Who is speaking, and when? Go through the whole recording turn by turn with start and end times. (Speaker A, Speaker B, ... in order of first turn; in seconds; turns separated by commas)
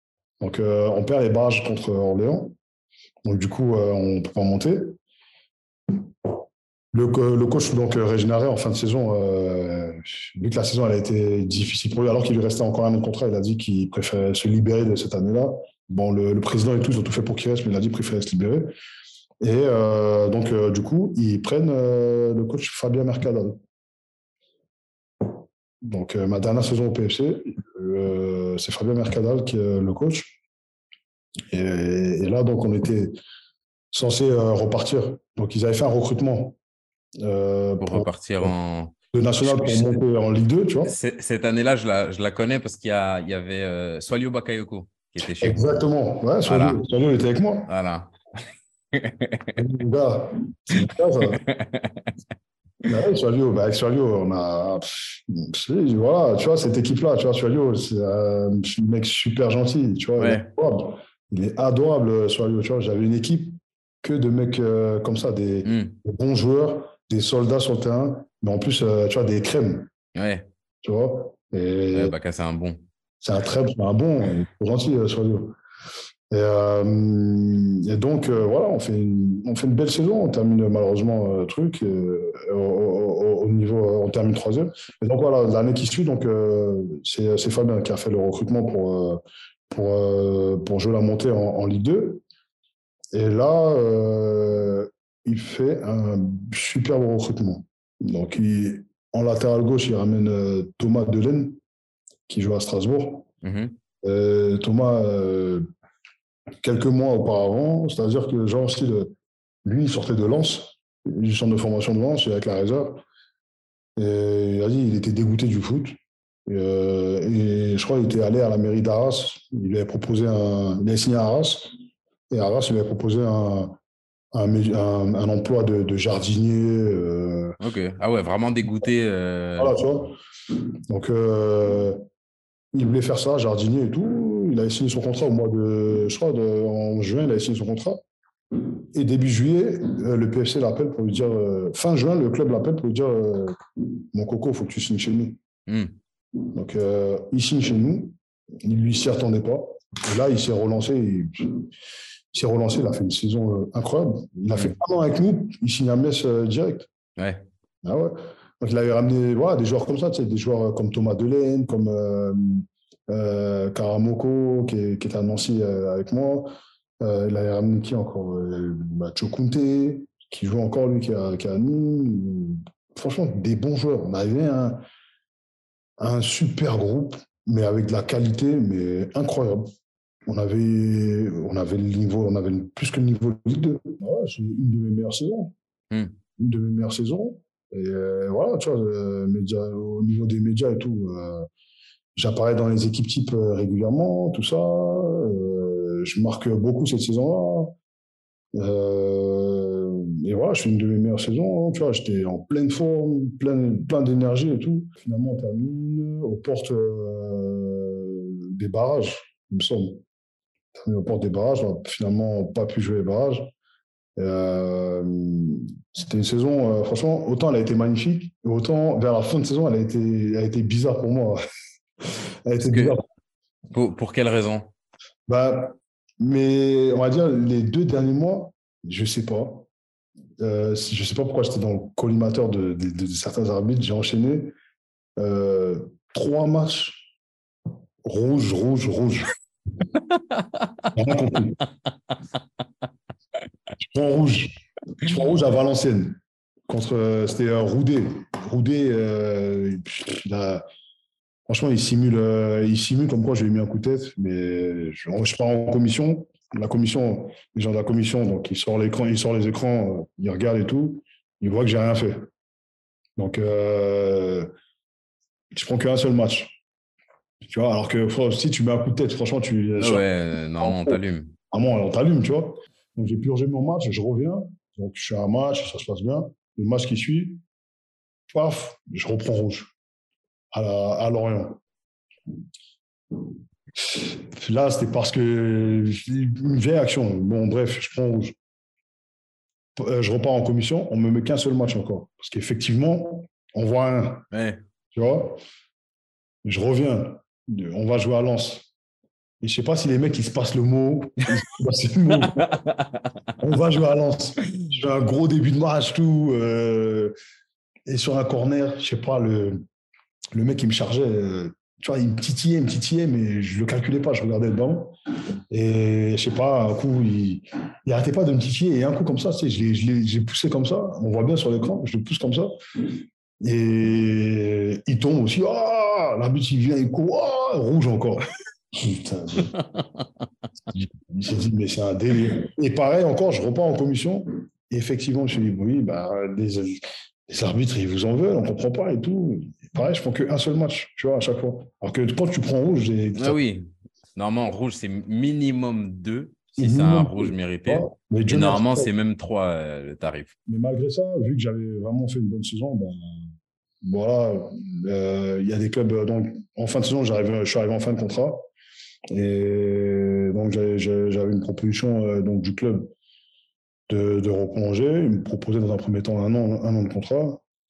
Speaker A: 0.4-2.5, Speaker A: 3.2-5.0, Speaker A: 6.9-18.7, Speaker A: 19.4-23.6, Speaker A: 25.9-30.4, Speaker A: 31.5-33.1, Speaker A: 33.9-36.6, Speaker A: 37.2-38.5, Speaker B: 37.8-40.0, Speaker A: 39.1-40.9, Speaker B: 40.9-45.6, Speaker A: 45.4-47.7, Speaker B: 46.5-46.8, Speaker B: 47.7-48.1, Speaker B: 48.9-49.6, Speaker A: 49.6-51.4, Speaker B: 51.3-52.1, Speaker A: 52.8-69.9, Speaker B: 60.2-60.5, Speaker B: 65.7-66.0, Speaker B: 70.2-70.5, Speaker A: 70.8-72.1, Speaker B: 71.9-72.8, Speaker A: 73.2-75.6, Speaker A: 76.3-92.2, Speaker A: 93.1-101.6, Speaker A: 102.3-103.3, Speaker B: 103.4-103.8, Speaker A: 104.0-105.7, Speaker A: 106.6-109.1, Speaker A: 109.7-113.0, Speaker A: 114.0-121.7, Speaker A: 122.3-123.8, Speaker A: 124.3-127.6, Speaker B: 127.6-129.8, Speaker A: 129.6-130.2, Speaker A: 130.9-132.0, Speaker A: 132.7-138.0, Speaker A: 138.6-145.4, Speaker B: 145.7-145.9, Speaker A: 146.4-151.7, Speaker A: 152.3-156.9, Speaker B: 157.2-157.4, Speaker A: 157.8-174.8, Speaker A: 176.0-179.7, Speaker A: 180.3-185.5, Speaker A: 186.4-191.5, Speaker A: 192.2-197.8, Speaker A: 198.5-210.0, Speaker A: 210.7-213.5, Speaker A: 214.2-221.4, Speaker A: 222.5-223.0, Speaker B: 222.6-223.0, Speaker B: 223.7-224.7, Speaker A: 225.3-229.7, Speaker A: 230.4-234.5, Speaker A: 235.2-237.0, Speaker A: 238.0-239.3, Speaker A: 240.9-241.6, Speaker A: 243.8-250.7, Speaker A: 251.5-262.3, Speaker A: 263.2-264.5, Speaker A: 265.5-266.6, Speaker A: 267.4-270.0, Speaker B: 269.8-271.3, Speaker A: 270.6-277.4, Speaker A: 278.3-279.7, Speaker A: 280.5-281.6, Speaker A: 283.9-288.4, Speaker A: 289.8-294.3, Speaker B: 294.3-294.6, Speaker A: 294.9-295.4, Speaker A: 296.4-298.7, Speaker A: 299.4-302.5, Speaker B: 302.4-303.1, Speaker A: 303.4-307.1, Speaker A: 307.9-309.7, Speaker A: 310.3-314.9, Speaker A: 315.5-322.8, Speaker A: 323.4-329.5, Speaker A: 330.7-343.4, Speaker B: 343.2-350.3, Speaker A: 346.6-348.9, Speaker A: 350.5-353.3, Speaker A: 353.8-358.5, Speaker A: 359.1-362.9, Speaker A: 363.9-367.4